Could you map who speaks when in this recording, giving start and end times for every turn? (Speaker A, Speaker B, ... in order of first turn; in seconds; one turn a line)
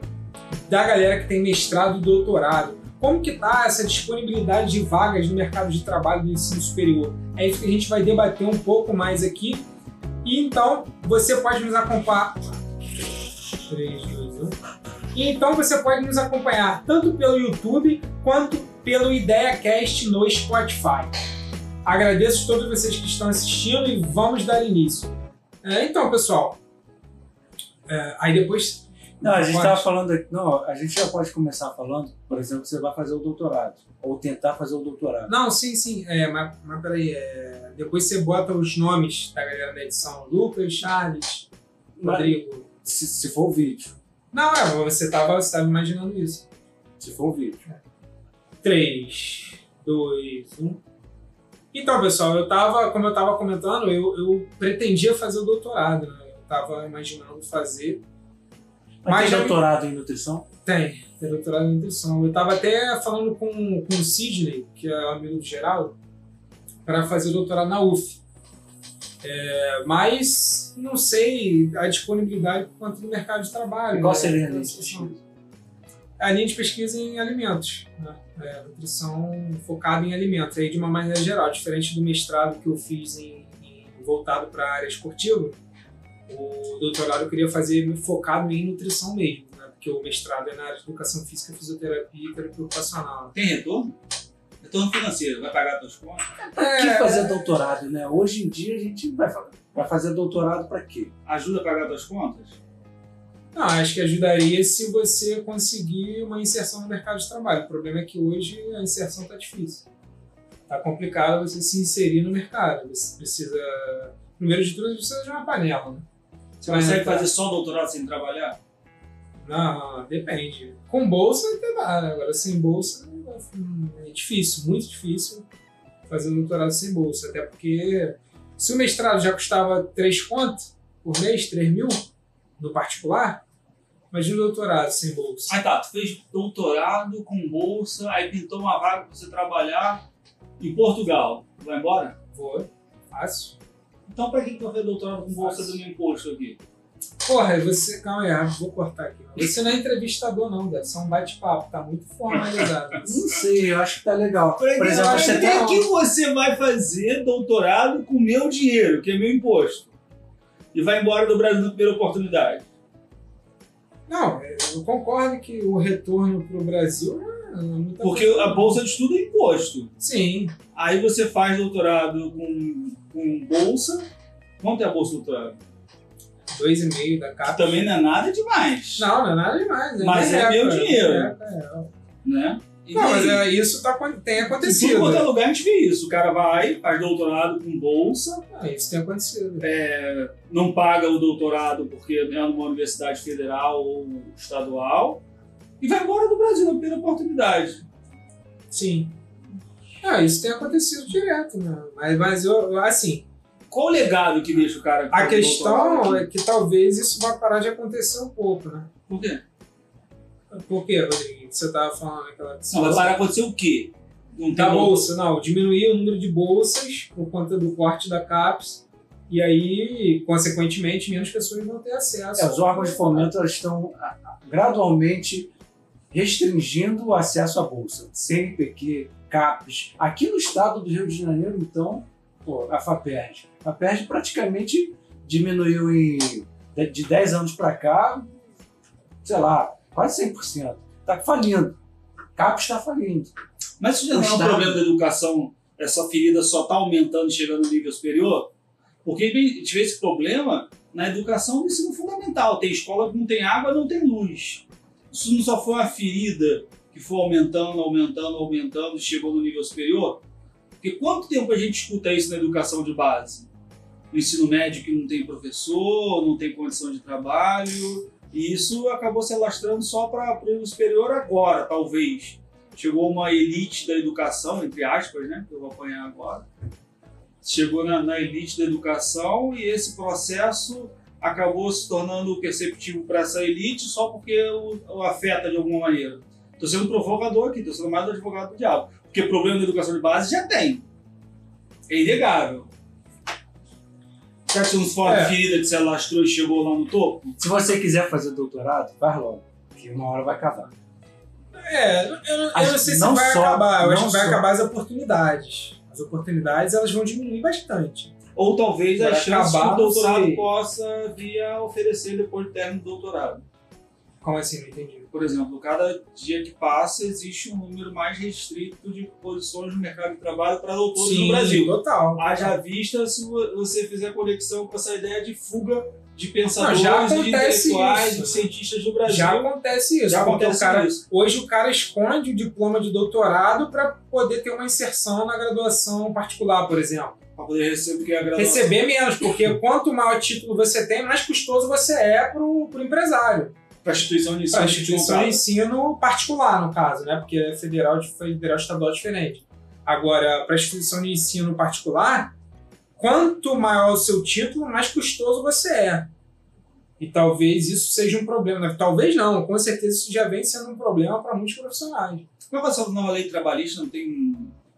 Speaker A: 0.7-9.7
Speaker A: 10.2-12.6
Speaker A: 13.7-14.5
Speaker A: 15.1-21.1
Speaker A: 21.8-26.6
Speaker A: 27.9-29.9
Speaker B: 29.2-35.3
Speaker A: 35.3-41.5
Speaker B: 42.0-43.9
Speaker A: 42.0-42.7
Speaker A: 44.3-46.5
Speaker B: 47.0-47.6
Speaker A: 48.6-50.8
Speaker A: 51.7-58.0
Speaker B: 59.0-60.5
Speaker A: 59.0-59.6
Speaker A: 60.6-66.0
Speaker A: 66.8-68.2
Speaker A: 69.2-75.1
Speaker B: 73.9-75.2
Speaker A: 76.2-85.6
Speaker A: 86.3-93.3
Speaker C: 93.3-94.0
Speaker C: 94.6-96.3
Speaker B: 96.5-101.1
Speaker A: 96.5-97.5
Speaker C: 101.2-102.6
Speaker A: 103.5-109.8
Speaker A: 110.7-116.0
Speaker C: 116.6-118.6
Speaker A: 116.6-117.3
Speaker A: 119.4-125.5
Speaker A: 126.1-132.0
Speaker A: 132.6-133.4
Speaker A: 134.1-135.6
Speaker C: 135.5-140.0
Speaker C: 140.6-142.1
Speaker A: 142.3-143.6
Speaker C: 144.1-146.6
Speaker A: 145.4-145.8
Speaker A: 147.2-153.1
Speaker C: 152.3-152.7
Speaker B: 153.0-155.8
Speaker C: 154.6-159.9
Speaker A: 154.8-155.8
Speaker C: 160.7-162.6
Speaker A: 164.1-168.8
Speaker C: 168.0-169.9
Speaker A: 170.0-170.5
Speaker C: 170.7-174.1
Speaker C: 174.6-175.6
Speaker A: 176.5-177.8
Speaker C: 177.5-179.1
Speaker A: 179.0-181.9
Speaker C: 180.0-181.3
Speaker C: 182.2-183.4
Speaker A: 182.9-185.3
Speaker C: 184.4-188.4
Speaker A: 188.5-189.7
Speaker C: 189.6-195.2
Speaker C: 195.8-197.8
Speaker A: 198.7-199.1
Speaker A: 200.0-203.2
Speaker C: 203.7-206.3
Speaker A: 205.1-208.9
Speaker C: 209.1-209.4
Speaker A: 210.5-213.1
Speaker C: 212.7-215.1
Speaker A: 214.5-223.3
Speaker B: 222.3-225.5
Speaker B: 226.1-238.3
Speaker B: 239.2-241.8
Speaker B: 242.3-243.3
Speaker C: 243.8-248.5
Speaker B: 244.1-244.8
Speaker C: 249.0-260.2
Speaker C: 260.8-263.5
Speaker C: 264.1-276.4
Speaker C: 277.4-290.8
Speaker C: 291.9-292.7
Speaker C: 294.5-297.4
Speaker A: 295.0-295.4
Speaker B: 297.4-300.7
Speaker A: 301.6-308.1
Speaker B: 302.5-304.4
Speaker C: 308.3-313.4
Speaker A: 309.0-310.4
Speaker A: 314.2-315.1
Speaker C: 315.1-329.5
Speaker A: 321.0-322.6
Speaker A: 326.6-328.5
Speaker A: 329.1-337.1
Speaker C: 330.1-331.0
Speaker C: 337.4-338.8
Speaker A: 338.4-343.5
Speaker C: 343.8-345.4
Speaker A: 344.5-352.3
Speaker A: 353.0-356.1
Speaker A: 357.0-362.2
Speaker C: 362.5-364.5